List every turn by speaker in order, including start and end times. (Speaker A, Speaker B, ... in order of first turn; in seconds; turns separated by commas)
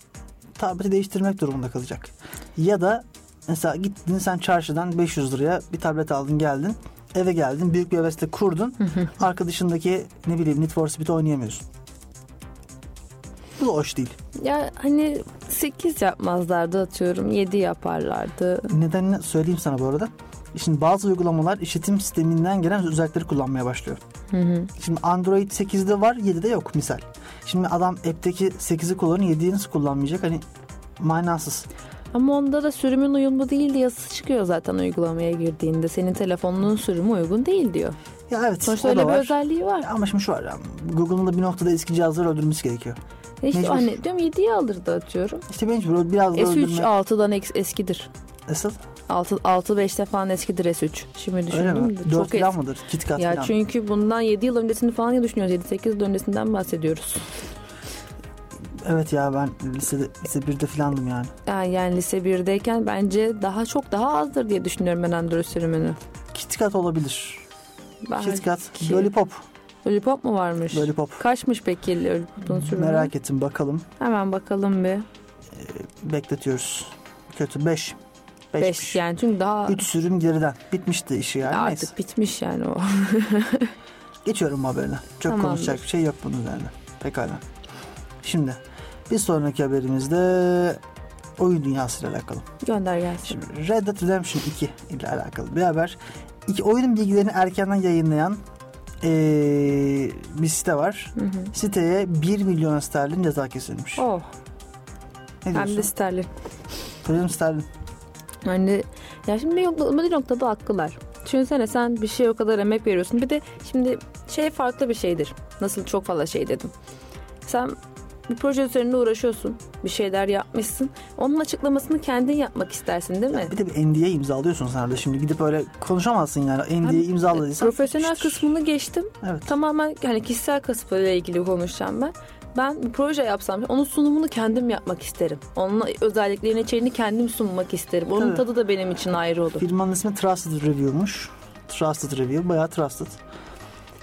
Speaker A: 0.6-11.7, Speaker A: 13.6-14.2, Speaker B: 14.4-18.7, Speaker A: 18.7-24.0, Speaker B: 24.3-24.7, Speaker A: 24.8-30.4, Speaker A: 31.0-31.7, Speaker B: 32.1-38.0, Speaker A: 38.3-43.0, Speaker B: 38.6-39.9, Speaker B: 43.4-45.5, Speaker A: 43.5-44.0, Speaker A: 45.5-46.9, Speaker B: 46.3-48.1, Speaker A: 48.5-48.8, Speaker B: 49.1-52.5, Speaker A: 51.5-53.5, Speaker B: 53.2-57.3, Speaker A: 58.8-61.3, Speaker B: 61.5-66.0, Speaker A: 66.3-67.4, Speaker B: 68.1-69.1, Speaker A: 68.2-69.5, Speaker B: 69.8-73.1, Speaker A: 70.7-71.2, Speaker A: 72.5-73.9, Speaker B: 74.0-75.1, Speaker A: 75.5-78.0, Speaker A: 78.5-79.0, Speaker B: 78.6-79.8, Speaker A: 79.7-81.9, Speaker B: 81.5-83.7, Speaker A: 84.2-87.4, Speaker B: 85.3-85.8, Speaker A: 88.2-90.8, Speaker A: 91.4-92.5, Speaker B: 92.6-93.4, Speaker A: 93.3-98.4, Speaker A: 99.0-104.1, Speaker B: 101.2-101.5, Speaker B: 104.0-104.3, Speaker A: 105.5-105.9, Speaker B: 105.5-106.3, Speaker A: 107.0-107.7, Speaker B: 108.4-116.7, Speaker B: 117.5-117.8, Speaker B: 118.3-123.5, Speaker A: 123.3-128.5, Speaker B: 126.8-139.7, Speaker A: 129.2-129.5, Speaker A: 138.1-138.5, Speaker A: 139.6-143.2